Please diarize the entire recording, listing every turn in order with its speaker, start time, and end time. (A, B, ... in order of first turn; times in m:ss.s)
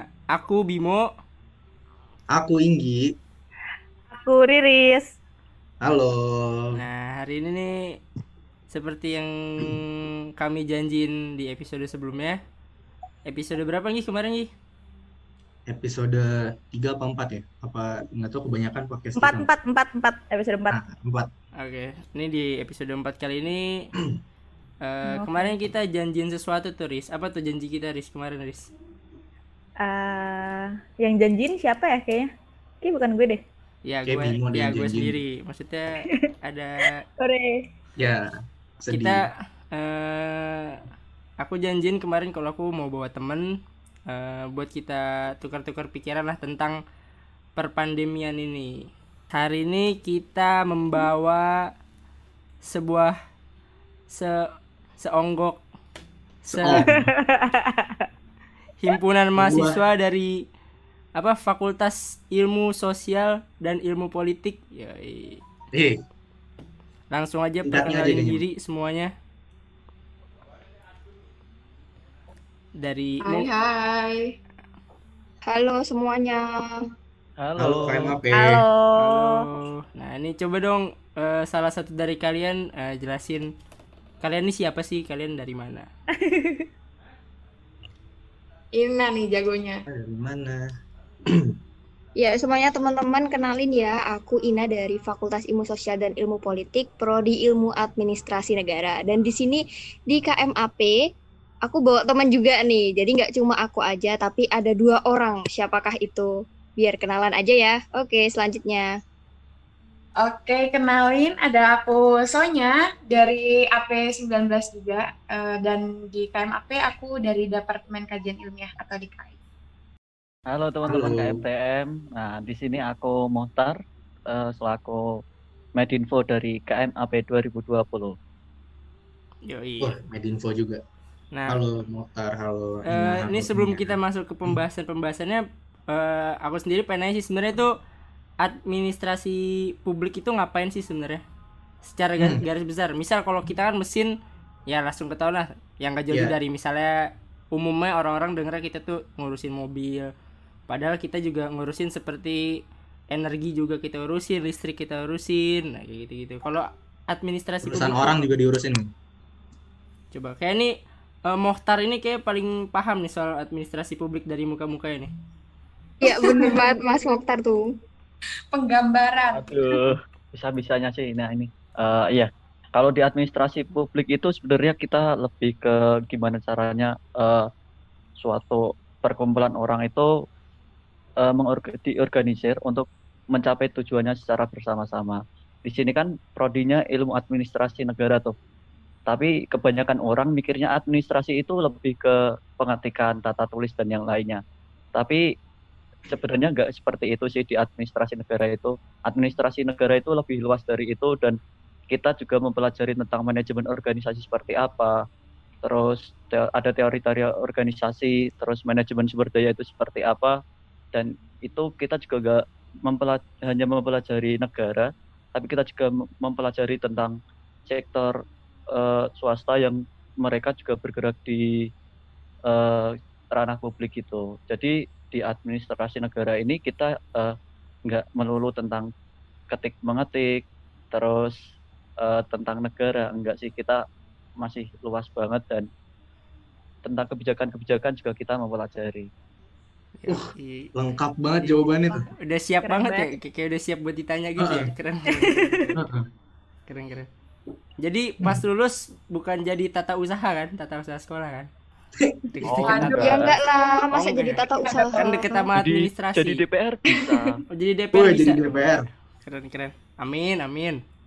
0:00.3-0:01.0 A
0:02.3-0:03.1 B
0:04.1-0:05.1 C
0:05.8-0:06.8 B
0:06.7-0:08.0 A
0:08.7-0:12.4 A
0:13.3-0:14.5 A
0:15.7-0:19.5 B
0:19.2-0:20.8 C
0:20.7-0:21.3 B
0:21.6-0:23.9 A
0:24.8-0:28.7 A
0:25.1-0:25.5 C
0:29.8-0:32.3 C
0:32.8-0:33.4 C
0:33.9-0:37.0 A
0:34.1-0:35.2 B
0:37.2-0:37.6 C
0:38.0-0:38.3 B
0:38.8-0:39.2 B
0:38.9-0:40.8 A
0:41.4-0:46.8 A
0:47.6-0:51.7 A
0:52.6-0:53.2 A
0:54.1-0:54.5 A
0:55.0-0:55.6 A
0:56.4-0:56.9 A
0:56.5-0:57.1 B
0:56.9-0:58.1 C
0:58.8-1:00.4 A
0:59.4-0:59.8 B
1:01.2-1:05.4 A
1:05.7-1:06.0 B
1:07.1-1:09.1 A
1:07.6-1:08.4 B
1:12.8-1:13.5 A
1:13.2-1:14.4 D
1:15.5-1:16.8 E
1:17.4-1:18.2 F
1:17.6-1:18.6 B
1:18.3-1:19.5 C
1:19.0-1:23.5 A
1:24.2-1:25.9 A
1:26.2-1:26.7 C
1:28.7-1:29.8 D
1:29.9-1:30.7 B
1:31.3-1:31.6 B
1:32.2-1:41.0 E
1:41.7-1:48.9 E
1:50.2-1:59.4 D
2:00.5-2:03.8 F
2:00.8-2:01.4 B
2:04.3-2:05.0 F
2:05.8-2:08.2 F
2:09.5-2:09.9 A
2:09.8-2:10.8 B
2:11.3-2:11.6 A
2:11.5-2:14.0 B
2:12.9-2:17.7 A
2:18.4-2:21.2 A
2:21.9-2:24.1 A
2:24.7-2:27.0 A
2:26.1-2:26.4 B
2:27.5-2:30.1 A
2:30.7-2:32.4 A
2:33.1-2:38.2 A
2:37.6-2:38.9 B
2:40.1-2:40.7 A
2:41.3-2:45.1 A
2:46.0-2:46.7 D
2:46.0-2:47.6 E
2:48.5-2:49.8 D
2:49.3-2:57.5 F
2:58.2-3:00.1 F
3:01.2-3:08.4 F
3:09.1-3:14.4 F
3:15.0-3:15.2 F
3:16.1-3:21.4 F
3:21.9-3:25.0 F
3:25.6-3:30.4 F
3:30.9-3:37.2 F
3:37.7-3:38.2 F
3:38.7-3:41.5 F
3:42.5-3:47.3 F
3:47.9-3:48.9 F
3:49.5-3:51.4 F
3:52.0-3:53.8 F
3:54.4-3:55.7 F
3:56.8-3:59.1 F
4:00.0-4:00.7 A
4:00.1-4:02.0 B
4:01.4-4:05.8 A
4:02.6-4:03.1 C
4:04.4-4:04.7 B
4:05.2-4:05.7 C
4:05.8-4:06.0 B
4:06.7-4:07.1 A
4:07.8-4:11.5 A
4:12.0-4:13.0 B
4:12.3-4:13.3 A
4:12.4-4:13.4 F
4:12.6-4:13.2 D
4:13.0-4:15.5 E
4:13.9-4:16.4 A
4:14.6-4:15.4 D
4:15.6-4:17.4 F
4:17.5-4:20.8 A
4:17.9-4:18.9 B